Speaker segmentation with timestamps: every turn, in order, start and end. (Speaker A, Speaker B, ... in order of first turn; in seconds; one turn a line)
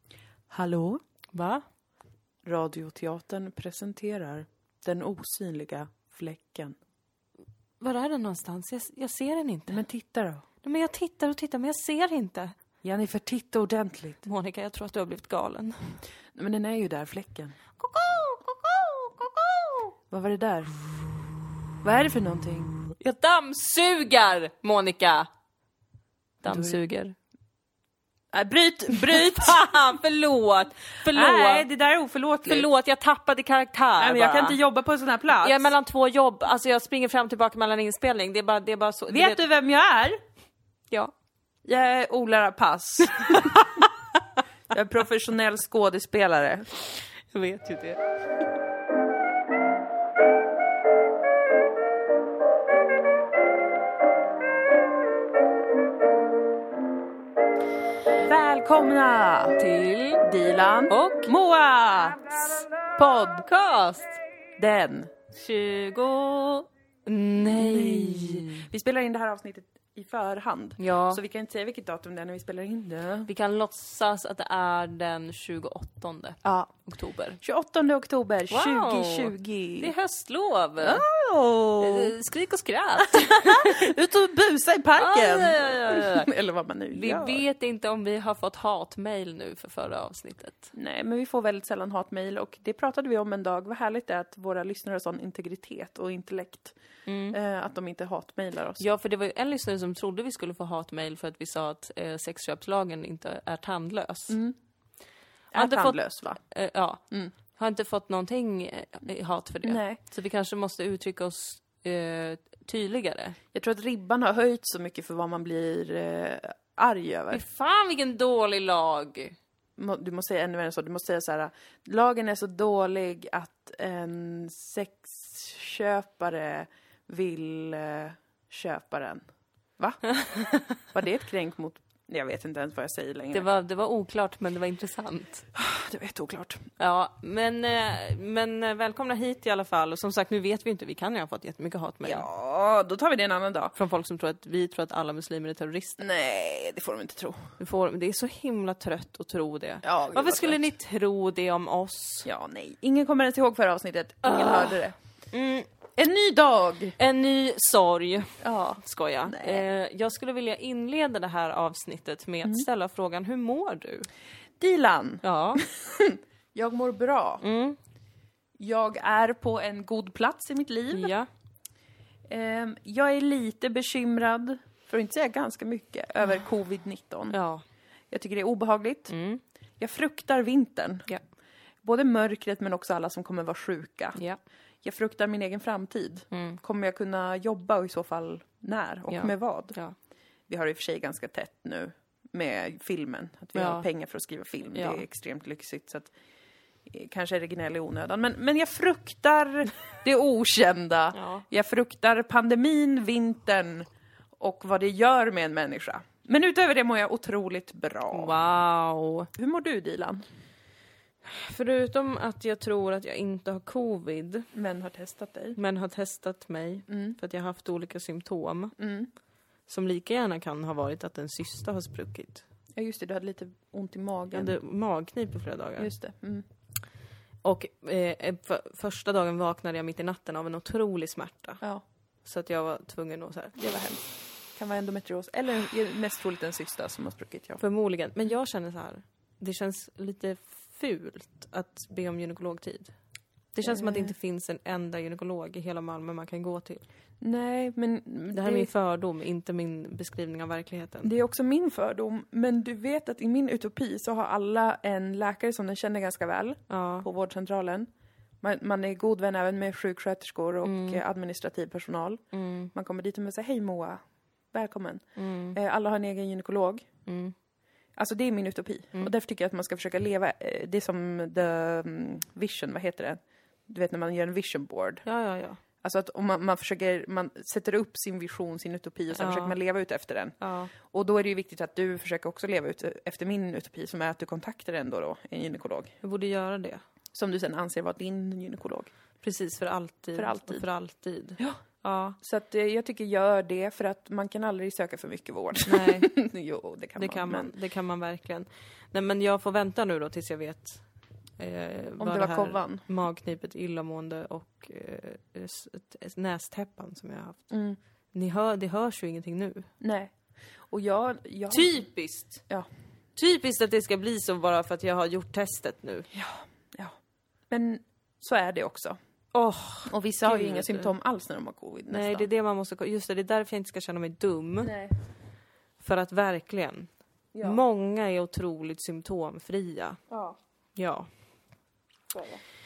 Speaker A: 0.5-1.0
Speaker B: 1.3-1.6
Speaker A: 2.4-6.8
Speaker B: 7.8-9.8
Speaker A: 9.7-10.4
Speaker B: 10.6-12.5
Speaker A: 12.8-14.2
Speaker B: 14.2-15.9
Speaker A: 16.3-17.6
Speaker B: 17.8-19.9
Speaker A: 20.1-21.1
Speaker A: 21.8-22.8
Speaker B: 23.0-25.3
Speaker B: 26.4-27.1
Speaker A: 26.4-26.8
Speaker A: 28.3-29.8
Speaker B: 28.9-31.6
Speaker A: 31.0-32.7
Speaker B: 32.5-34.6
Speaker A: 34.0-35.7
Speaker B: 35.4-39.4
Speaker A: 39.1-40.2
Speaker A: 41.6-43.8
Speaker B: 43.3-43.6
Speaker A: 44.7-46.7
Speaker B: 47.3-48.0
Speaker A: 58.1-59.6
Speaker B: 59.6-60.2
Speaker A: 60.2-63.5
Speaker B: 60.9-61.3
Speaker B: 63.4-64.2
Speaker A: 64.6-65.1
Speaker B: 65.3-68.7
Speaker A: 67.5-73.3
Speaker B: 70.8-71.2
Speaker B: 73.3-77.4
Speaker A: 76.4-76.7
Speaker A: 77.4-79.9
Speaker B: 78.5-81.0
Speaker A: 80.8-82.1
Speaker B: 81.8-83.9
Speaker A: 83.0-87.4
Speaker B: 85.0-86.3
Speaker B: 86.9-90.7
Speaker A: 90.7-96.8
Speaker B: 97.0-97.4
Speaker A: 97.3-98.8
Speaker B: 98.8-104.4
Speaker A: 104.3-104.5
Speaker A: 105.5-106.4
Speaker B: 105.5-113.4
Speaker A: 109.6-110.0
Speaker A: 113.5-117.4
Speaker B: 117.3-119.3
Speaker A: 119.8-129.2
Speaker A: 129.8-133.4
Speaker B: 133.3-135.4
Speaker A: 135.5-136.6
Speaker B: 136.8-142.3
Speaker A: 142.0-143.7
Speaker B: 143.7-146.0
Speaker A: 146.0-147.5
Speaker B: 147.6-152.3
Speaker A: 149.8-150.7
Speaker A: 152.2-154.9
Speaker B: 154.2-154.8
Speaker B: 155.3-155.7
Speaker A: 155.9-156.9
Speaker B: 157.0-164.1
Speaker A: 158.4-159.6
Speaker A: 164.6-167.4
Speaker B: 165.2-165.6
Speaker B: 167.4-167.8
Speaker A: 168.6-171.1
Speaker B: 170.9-171.3
Speaker A: 172.3-177.3
Speaker B: 177.3-177.6
Speaker A: 178.1-179.1
Speaker B: 179.1-179.4
Speaker A: 179.8-181.1
Speaker A: 181.8-184.2
Speaker A: 184.8-189.8
Speaker B: 186.3-186.6
Speaker B: 189.1-189.9
Speaker A: 190.5-196.1
Speaker B: 193.5-193.9
Speaker B: 194.7-195.0
Speaker A: 196.8-208.3
Speaker B: 201.1-201.4
Speaker B: 208.1-209.3
Speaker A: 209.3-210.2
Speaker B: 211.2-214.5
Speaker A: 214.5-215.6
Speaker B: 215.6-218.7
Speaker A: 216.9-217.2
Speaker A: 218.8-219.1
Speaker B: 219.7-222.4
Speaker A: 222.8-224.6
Speaker B: 224.3-225.9
Speaker A: 225.8-226.4
Speaker B: 227.4-231.6
Speaker B: 232.2-233.6
Speaker A: 233.6-237.6
Speaker B: 237.6-242.9
Speaker B: 243.5-246.8
Speaker A: 243.6-244.1
Speaker A: 247.2-248.7
Speaker B: 248.3-251.1
Speaker A: 251.0-257.9
Speaker B: 256.7-257.1
Speaker A: 258.4-264.0
Speaker B: 260.6-261.0
Speaker B: 262.3-262.7
Speaker A: 264.5-265.0
Speaker B: 265.1-265.6
Speaker A: 265.5-266.9
Speaker B: 267.1-267.3
Speaker A: 267.9-275.0
Speaker B: 275.0-275.6
Speaker A: 275.8-285.9
Speaker B: 279.1-279.6
Speaker B: 280.4-280.7
Speaker B: 286.0-286.8
Speaker A: 287.1-288.9
Speaker B: 289.2-292.2
Speaker A: 290.1-290.6
Speaker A: 292.2-297.5
Speaker B: 295.6-296.1
Speaker B: 297.0-300.8
Speaker B: 301.4-307.4
Speaker A: 302.0-302.8
Speaker A: 307.5-307.8
Speaker B: 308.1-309.7
Speaker A: 309.8-310.1
Speaker A: 310.7-311.8
Speaker B: 311.5-312.4
Speaker B: 313.1-316.1
Speaker A: 316.1-316.9
Speaker A: 317.5-319.0
Speaker B: 319.3-320.9
Speaker A: 319.9-322.3
Speaker B: 321.9-324.7
Speaker A: 324.6-324.9
Speaker B: 325.8-326.9
Speaker A: 327.3-327.6
Speaker B: 327.4-330.0
Speaker A: 330.1-330.4
Speaker B: 330.8-331.1
Speaker A: 332.1-332.4